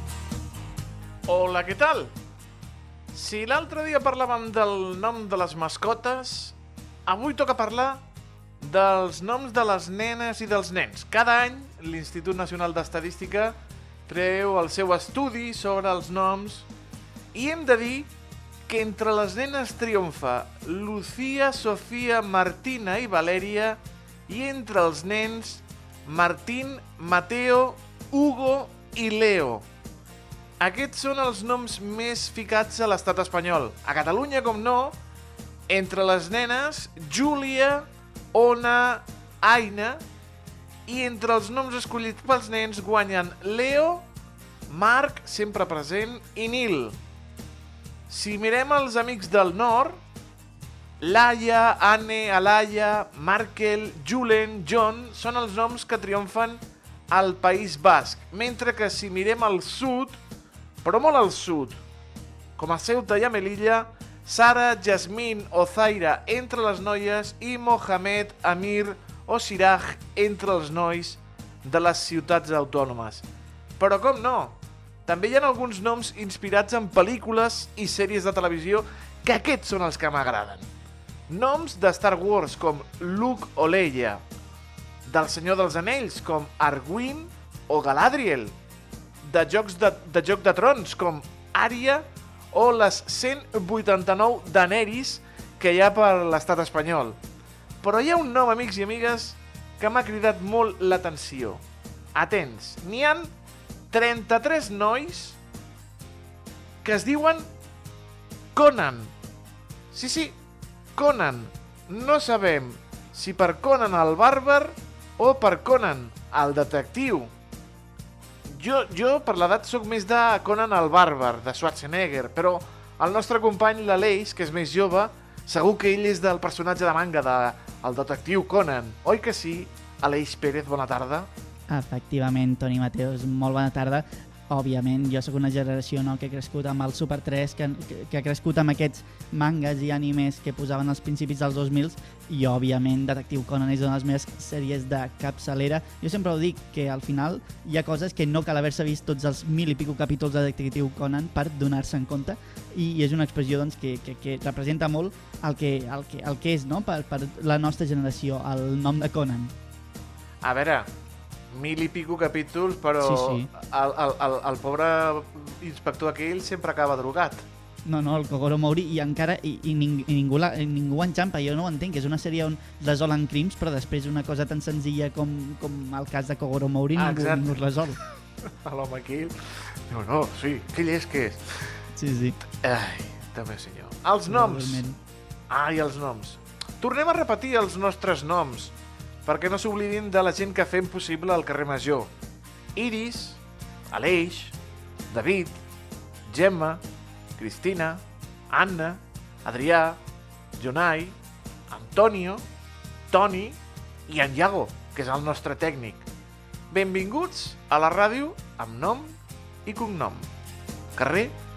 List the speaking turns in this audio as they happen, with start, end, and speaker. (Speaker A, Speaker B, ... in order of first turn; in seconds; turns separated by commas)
Speaker A: 1.3-2.1, Speaker A: 3.1-6.5, Speaker A: 7.1-8.0, Speaker A: 8.6-13.6, Speaker A: 14.1-16.7, Speaker A: 17.3-18.1, Speaker A: 18.7-29.6, Speaker A: 30.6-35.0, Speaker A: 35.7-40.0, Speaker A: 40.9-44.0, Speaker A: 44.7-47.0, Speaker A: 48.1-50.0, Speaker A: 51.0-60.2, Speaker A: 60.8-61.8, Speaker A: 62.6-73.2, Speaker A: 73.8-80.7, Speaker A: 81.3-84.2, Speaker A: 85.0-88.5, Speaker A: 89.2-97.2, Speaker A: 97.8-101.6, Speaker A: 102.1-103.3, Speaker A: 103.9-105.4, Speaker A: 106.8-107.5, Speaker A: 108.5-109.1, Speaker A: 109.9-110.3, Speaker A: 111.0-117.3, Speaker A: 118.5-131.3, Speaker B: 131.7-159.5, Speaker A: 160.4-160.9, Speaker A: 161.5-167.4, Speaker B: 163.0-163.5, Speaker B: 167.8-178.0, Speaker A: 177.0-177.6, Speaker A: 178.5-181.8, Speaker B: 181.9-182.4, Speaker A: 182.6-184.8, Speaker B: 184.3-185.0, Speaker A: 185.5-188.7, Speaker A: 189.2-192.1, Speaker A: 192.7-193.4, Speaker A: 193.9-194.5, Speaker A: 195.1-195.5, Speaker A: 196.3-196.8, Speaker A: 197.4-200.0, Speaker A: 200.6-201.2, Speaker A: 201.7-202.4, Speaker A: 203.1-206.1, Speaker A: 206.7-210.3, Speaker A: 210.9-211.3